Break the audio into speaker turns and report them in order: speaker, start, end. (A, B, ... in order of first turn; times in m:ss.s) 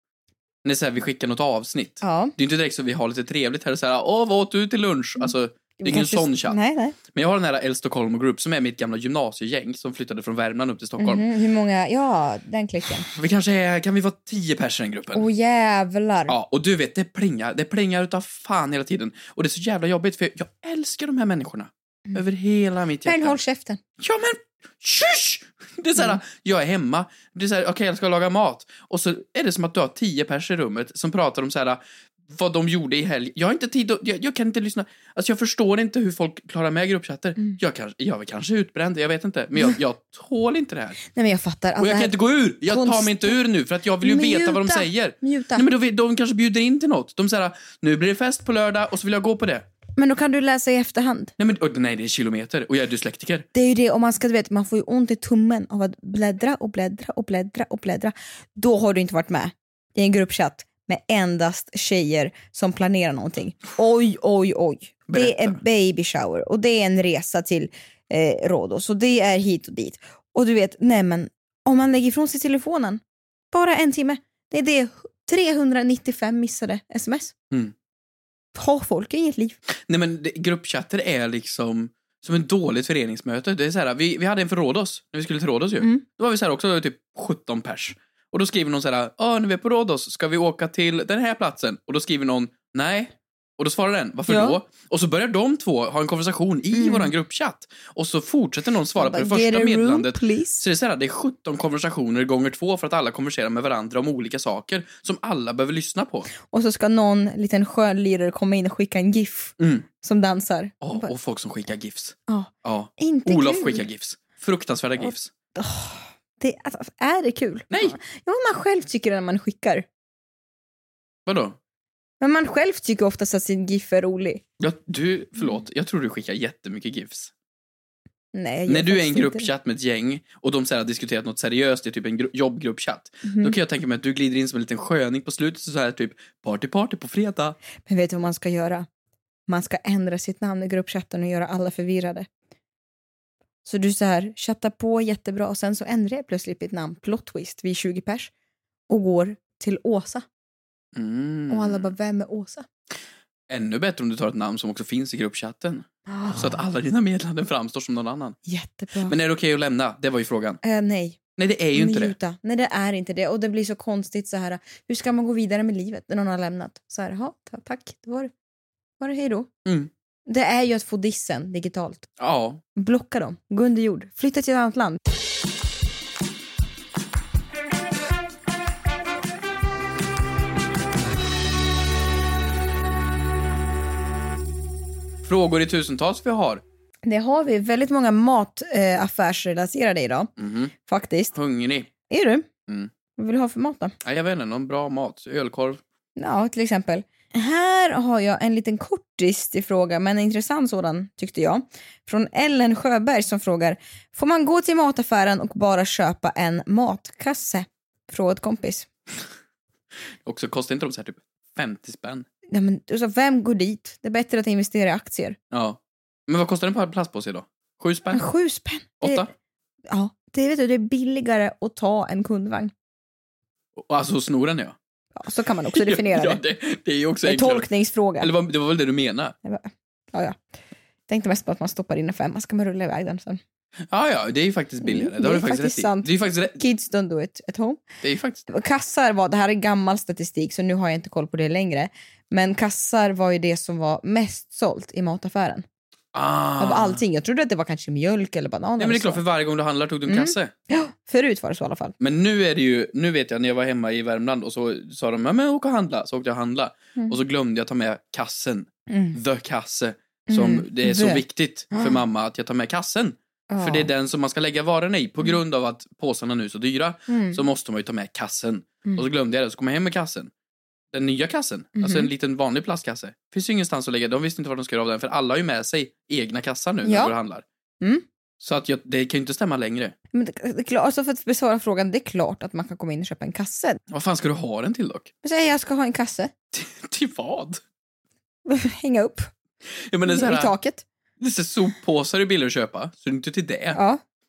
0:00.6-0:11.2 A
0:02.0-0:02.3 B
0:05.8-0:07.0 B
0:11.0-0:13.0 B
0:13.1-0:15.2 A
0:15.1-0:16.3 B
0:16.3-0:23.4 A
0:23.0-0:23.8 B
0:24.0-0:41.0 A
0:41.1-0:43.4 B
0:41.8-0:49.6 A
0:44.0-0:45.7 B
0:50.0-0:51.3 B
0:51.4-0:53.4 A
0:53.5-1:13.0 B
1:05.1-1:05.6 A
1:13.5-1:17.3 B
1:18.5-1:19.6 B
1:19.9-1:46.3 A
1:34.3-1:34.6 B
1:36.7-1:37.1 B
1:39.0-1:40.6 B
1:46.4-1:51.1 B
1:49.6-1:49.8 A
1:50.8-1:55.3 A
1:52.3-1:53.8 B
1:55.0-1:59.8 B
1:57.7-1:58.0 A
2:01.3-2:01.6 A
2:02.2-2:04.4 B
2:04.6-2:07.3 A
2:08.3-2:09.5 B
2:08.7-2:17.6 A
2:13.2-2:13.5 B
2:17.8-2:18.9 B
2:19.5-2:22.3 B
2:23.6-2:28.3 B
2:28.9-2:30.2 B
2:30.9-2:31.9 A
2:31.5-2:32.6 B
2:33.5-2:38.4 A
2:36.1-2:36.6 B
2:38.4-2:39.1 B
2:39.1-2:40.6 A
2:40.6-2:41.2 B
2:41.4-2:42.1 A
2:41.7-2:48.3 B
2:49.0-2:49.5 B
2:49.6-2:49.9 A
2:50.3-2:52.1 B
2:52.2-2:52.6 A
2:52.8-2:55.0 B
3:05.2-3:06.6 A
3:07.0-3:10.3 B
3:10.4-3:10.7 A
3:10.8-3:11.3 B
3:11.3-3:11.9 A
3:12.1-3:12.5 B
3:13.2-3:13.9 B
3:14.0-3:15.8 A
3:16.2-3:28.9 B
3:30.2-3:32.2 A
3:32.5-3:35.4 B
3:35.5-3:38.2 A
3:38.1-3:39.3 B
3:39.0-3:39.3 A
3:39.9-3:42.7 B
3:43.8-3:44.8 A
3:45.2-3:46.4 B
3:45.7-3:49.3 A
3:47.2-3:48.3 B
3:49.4-3:50.4 B
3:51.1-3:53.4 B
3:53.9-3:56.6 A
3:54.8-3:57.8 B
3:58.0-3:58.5 A
3:58.5-4:05.6 B
4:06.1-4:07.0 A
4:06.6-4:09.2 B
4:08.8-4:10.5 A
4:10.1-4:11.9 B
4:12.0-4:30.3 A
4:18.9-4:19.2 B
4:20.3-4:22.0 B
4:23.5-4:23.9 B
4:27.1-4:27.4 B
4:30.9-4:37.4 A
4:31.8-4:32.1 B
4:36.8-4:37.1 B
4:38.4-4:39.9 A
4:40.1-4:43.8 B
4:43.9-4:45.1 A
4:45.2-4:46.3 B
4:46.5-4:47.6 A
4:48.5-4:49.3 B
4:49.9-4:50.5 A
4:50.1-4:50.8 B
4:51.2-4:53.8 A
4:53.7-4:54.0 B